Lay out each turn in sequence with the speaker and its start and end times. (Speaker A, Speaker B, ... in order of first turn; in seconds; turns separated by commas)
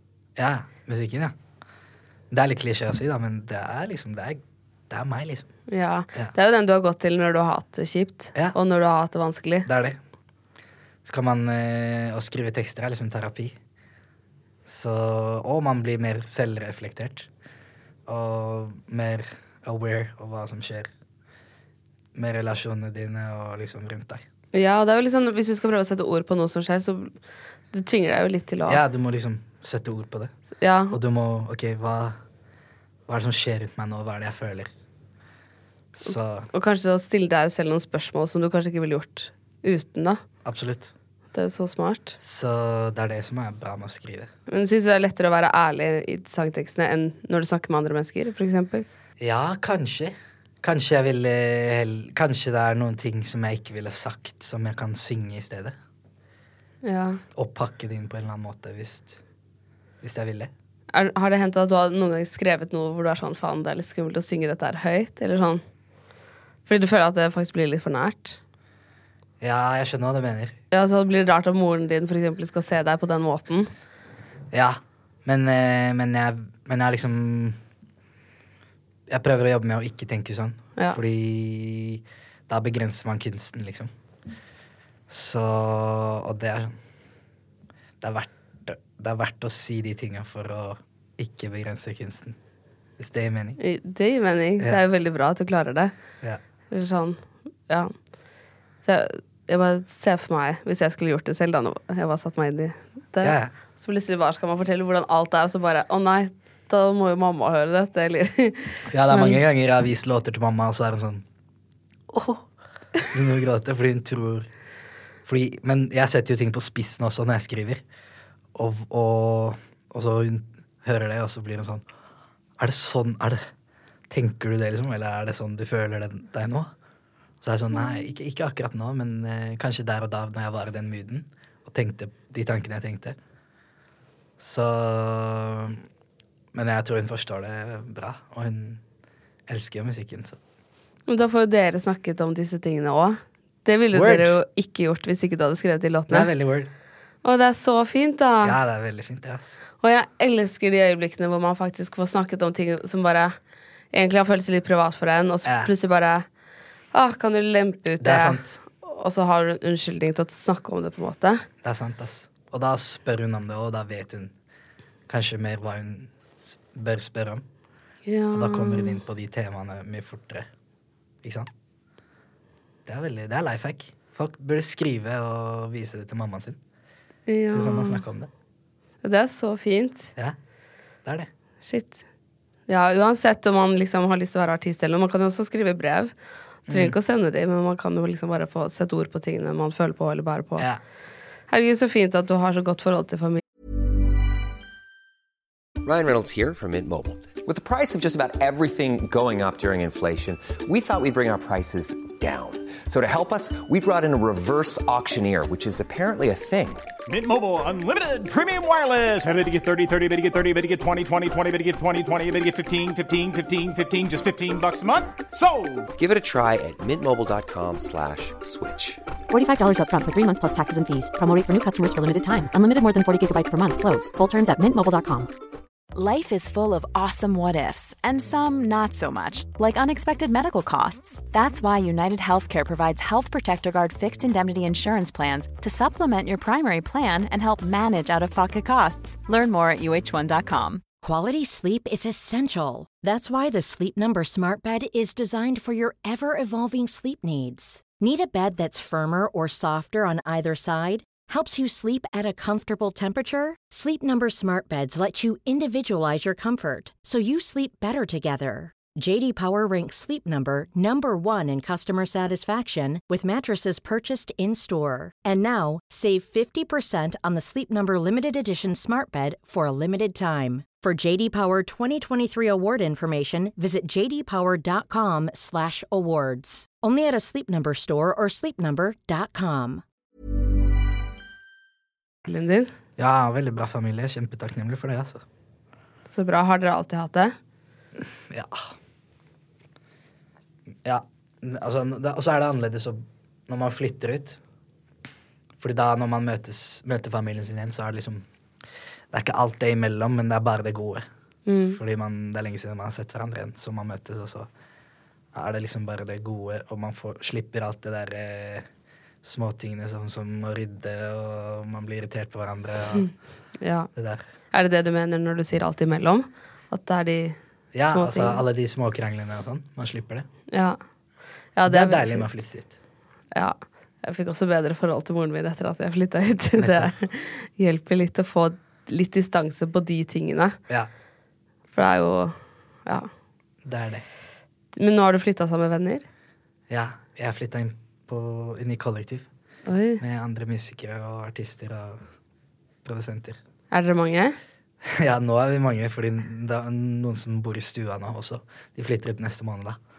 Speaker A: 0.3-1.3, Speaker A: 2.3-5.5, Speaker B: 5.7-9.7, Speaker A: 9.7-10.0, Speaker A: 11.0-13.6, Speaker A: 14.7-17.3, Speaker A: 18.1-20.9, Speaker A: 22.1-24.2, Speaker B: 24.5-27.1, Speaker B: 27.7-28.8, Speaker A: 28.7-30.3, Speaker B: 30.6-31.0, Speaker A: 30.9-32.2, Speaker A: 33.1-34.7, Speaker A: 35.9-36.5, Speaker B: 36.5-40.2, Speaker A: 40.4-40.9, Speaker B: 41.3-42.2, Speaker A: 42.2-44.3, Speaker B: 44.5-48.9, Speaker A: 49.2-55.8, Speaker B: 56.8-57.2, Speaker A: 57.3-59.2, Speaker A: 60.0-60.5, Speaker B: 60.9-65.6, Speaker B: 66.7-68.4, Speaker A: 69.4-70.6, Speaker B: 70.7-73.7, Speaker A: 74.5-77.6, Speaker A: 79.1-83.9, Speaker A: 85.1-86.8, Speaker A: 88.0-92.4, Speaker A: 93.0-93.6, Speaker B: 93.6-95.9, Speaker B: 96.7-97.9, Speaker B: 98.8-109.4, Speaker A: 103.2-103.5, Speaker A: 108.9-111.2, Speaker A: 112.1-112.5, Speaker A: 113.1-114.5, Speaker A: 115.2-117.8, Speaker A: 118.5-121.8, Speaker A: 122.6-123.4, Speaker A: 124.1-126.7, Speaker A: 127.4-133.2, Speaker A: 134.4-135.8, Speaker A: 136.5-138.8, Speaker A: 139.5-140.4, Speaker B: 141.1-146.3, Speaker A: 143.9-144.4, Speaker A: 146.1-146.7, Speaker B: 147.2-148.6, Speaker A: 148.4-149.6, Speaker B: 149.8-153.3, Speaker B: 153.9-156.2, Speaker A: 155.4-155.7, Speaker B: 156.9-161.4, Speaker A: 158.0-158.6, Speaker A: 161.6-164.3, Speaker A: 165.1-167.4, Speaker B: 168.1-169.0, Speaker A: 168.3-170.5, Speaker A: 171.2-171.5, Speaker A: 172.8-176.6, Speaker B: 177.3-178.0, Speaker A: 177.5-178.3, Speaker B: 179.0-180.1, Speaker B: 181.6-182.0, Speaker B: 182.7-186.1, Speaker A: 186.7-186.9, Speaker B: 186.7-190.7, Speaker B: 191.5-193.4, Speaker C: 195.8-206.8, Speaker D: 207.1-215.9, Speaker C: 216.0-219.0, Speaker E: 219.3-225.3, Speaker F: 225.9-240.8, Speaker G: 241.0-279.8, Speaker B: 282.2-282.7, Speaker A: 283.0-285.2, Speaker B: 286.1-287.4, Speaker A: 288.3-288.7, Speaker A: 290.8-294.4, Speaker A: 295.6-298.2, Speaker A: 299.1-301.0, Speaker B: 301.4-301.8, Speaker A: 301.7-304.5, Speaker A: 305.3-308.7, Speaker A: 309.2-313.1, Speaker B: 313.6-313.9, Speaker A: 313.9-314.2, Speaker B: 314.5-318.4, Speaker A: 317.7-320.2, Speaker B: 320.5-320.8, Speaker B: 321.6-322.3, Speaker A: 321.6-322.7, Speaker B: 323.3-330.6, Speaker A: 326.6-326.9, Speaker B: 331.7-333.1, Speaker A: 333.6-334.0, Speaker B: 334.7-336.1, Speaker A: 336.7-339.3, Speaker B: 339.6-340.0, Speaker A: 340.0-342.0, Speaker A: 342.8-343.4, Speaker B: 343.7-344.4, Speaker A: 344.8-349.8